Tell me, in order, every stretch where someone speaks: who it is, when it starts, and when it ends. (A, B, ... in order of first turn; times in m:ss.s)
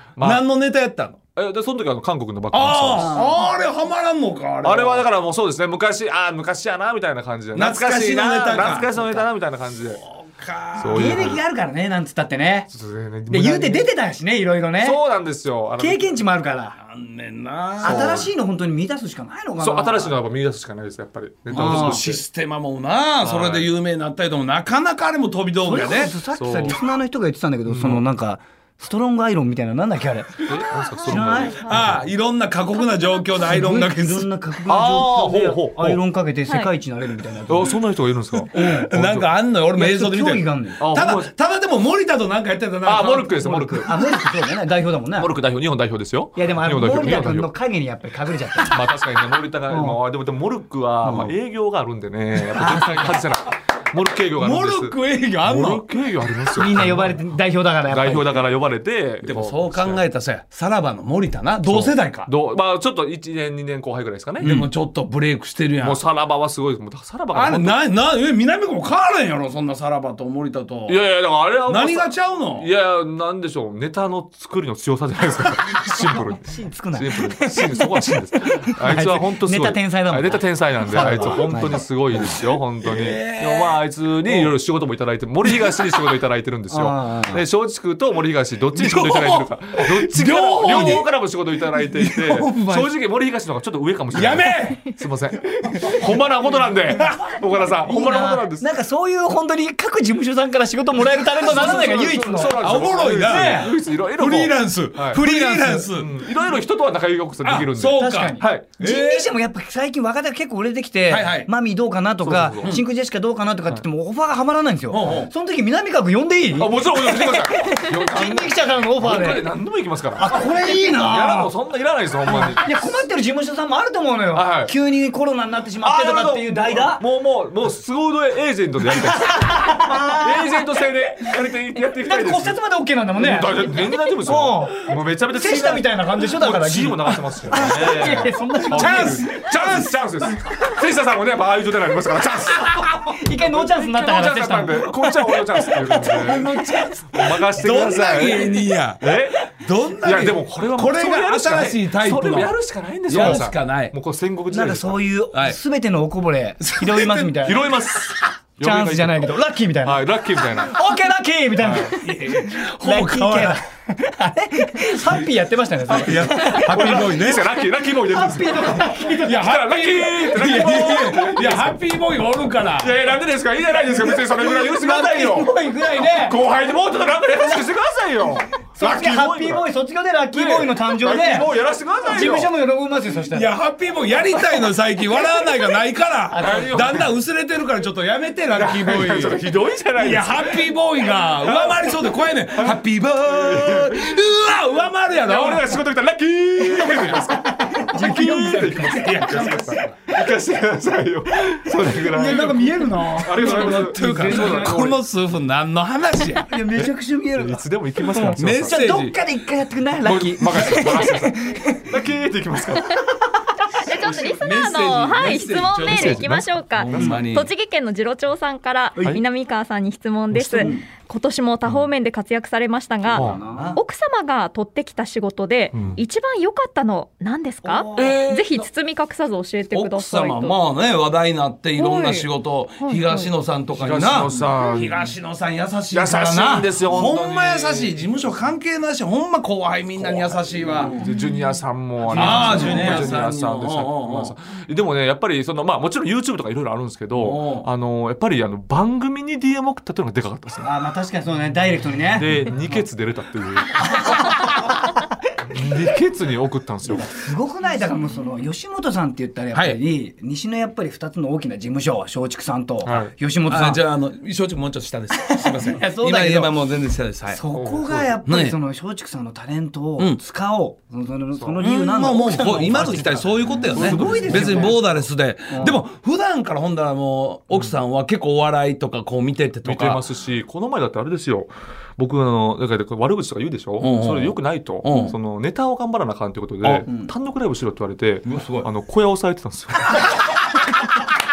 0:00.2-0:00.4 A
0:00.2-0:01.2 B
0:01.4-0:03.2 A
0:02.5-0:05.1 B
0:03.0-0:03.5 C
0:04.6-0:10.0 A
0:07.6-0:08.9 B
0:08.7-0:09.3 C
0:10.0-0:11.2 B
0:10.8-0:11.4 A
0:10.9-0:12.7 C
0:12.7-0:13.9 A
0:13.3-0:15.0 C
0:14.8-0:16.2 A
0:15.8-0:16.8 C
0:16.8-0:18.3 B
0:17.8-0:20.2 C
0:17.8-0:18.3 A
0:19.6-0:22.2 A
0:21.5-0:22.1 C
0:21.5-0:26.2 B
0:23.2-0:23.7 A
0:25.6-0:31.9 C
0:26.3-0:26.8 A
0:27.7-0:28.1 A
0:30.4-0:32.0 A
0:31.1-0:31.5 D
0:31.6-0:34.3 B
0:33.4-0:37.8 C
0:34.7-0:36.0 A
0:37.5-0:39.3 A
0:38.4-0:38.9 C
0:38.5-0:43.5 B
0:39.7-0:40.8 C
0:40.8-0:41.3 A
0:42.8-0:43.9 A
0:43.3-0:45.3 C
0:45.2-0:47.5 A
0:46.4-0:49.0 C
0:48.7-0:57.2 A
0:49.7-0:50.0 C
0:51.0-0:51.3 C
0:52.4-0:53.2 C
0:54.4-0:55.9 B
0:56.5-0:58.4 C
0:57.9-1:00.0 A
0:59.2-1:02.3 B
1:01.6-1:04.7 A
1:04.4-1:06.0 B
1:05.8-1:07.8 A
1:07.3-1:11.0 B
1:10.9-1:38.7 A
1:11.6-1:12.7 B
1:16.0-1:22.4 C
1:21.0-1:21.4 B
1:22.8-1:24.5 B
1:26.7-1:27.4 C
1:28.8-1:31.1 B
1:31.8-1:32.9 B
1:34.1-1:34.9 B
1:35.6-1:36.0 B
1:37.0-1:37.3 B
1:37.8-1:42.7 C
1:41.2-1:45.3 A
1:42.6-1:46.2 B
1:43.2-1:43.7 C
1:45.1-1:45.9 C
1:45.9-1:48.7 A
1:47.4-1:49.3 B
1:47.8-1:59.5 C
1:51.1-1:51.5 B
1:52.2-1:52.8 A
1:54.9-1:55.3 B
1:56.6-2:02.9 A
2:00.2-2:01.5 C
2:02.3-2:07.0 C
2:04.3-2:04.7 A
2:05.8-2:12.6 A
2:08.9-2:10.8 C
2:11.4-2:19.7 C
2:13.2-2:29.5 A
2:18.7-2:20.0 B
2:22.6-2:26.9 C
2:26.2-2:27.0 B
2:27.5-2:32.6 B
2:30.0-2:35.0 A
2:33.1-2:33.9 B
2:34.5-2:47.1 C
2:36.6-2:37.5 B
2:37.4-2:40.8 A
2:41.6-2:42.0 A
2:42.0-2:43.6 B
2:45.9-2:47.5 B
2:46.2-2:51.8 A
2:47.9-2:49.6 C
2:49.2-2:53.0 B
2:50.7-2:51.2 C
2:52.8-2:59.7 A
2:53.9-2:56.4 C
2:57.4-3:01.5 C
3:00.3-3:02.5 A
3:02.0-3:03.5 C
3:03.3-3:09.4 B
3:06.3-3:07.0 C
3:06.3-3:07.2 A
3:08.6-3:10.7 A
3:10.0-3:15.8 B
3:11.3-3:14.3 A
3:15.2-3:25.0 A
3:16.9-3:19.1 C
3:17.9-3:20.0 B
3:22.0-3:24.9 C
3:22.2-3:26.5 B
3:26.4-3:31.9 C
3:26.8-3:29.0 A
3:28.4-3:29.2 B
3:30.0-3:33.1 A
3:33.7-3:50.6 D
3:34.2-3:37.5 B
3:35.9-3:37.2 A
3:40.3-3:40.8 A
3:40.6-3:40.8 C
3:43.1-3:43.8 C
3:43.1-3:43.4 A
3:43.5-3:43.8 B
3:45.7-3:46.0 A
3:47.6-3:48.1 C
3:47.9-3:48.7 B
3:49.7-4:01.0 B
3:51.8-3:52.3 D
3:52.8-3:53.3 D
3:53.7-3:55.1 A
3:55.9-3:58.3 A
4:00.0-4:10.7 A
4:00.8-4:01.2 C
4:02.0-4:03.2 C
4:02.1-4:04.3 B
4:07.1-4:07.7 B
4:10.6-4:12.8 C
4:12.1-4:14.3 A
4:14.0-4:14.9 C
4:15.5-4:17.2 A
4:17.0-4:23.8 C
4:22.8-4:23.1 A
4:23.5-4:27.4 B
4:25.2-4:26.5 C
4:27.3-4:34.8 C
4:27.5-4:28.1 A
4:28.3-4:28.6 B
4:31.6-4:40.0 B
4:33.6-4:35.1 A
4:35.5-4:35.8 C
4:39.6-4:50.1 A
4:43.8-4:45.2 B
4:48.3-4:48.7 B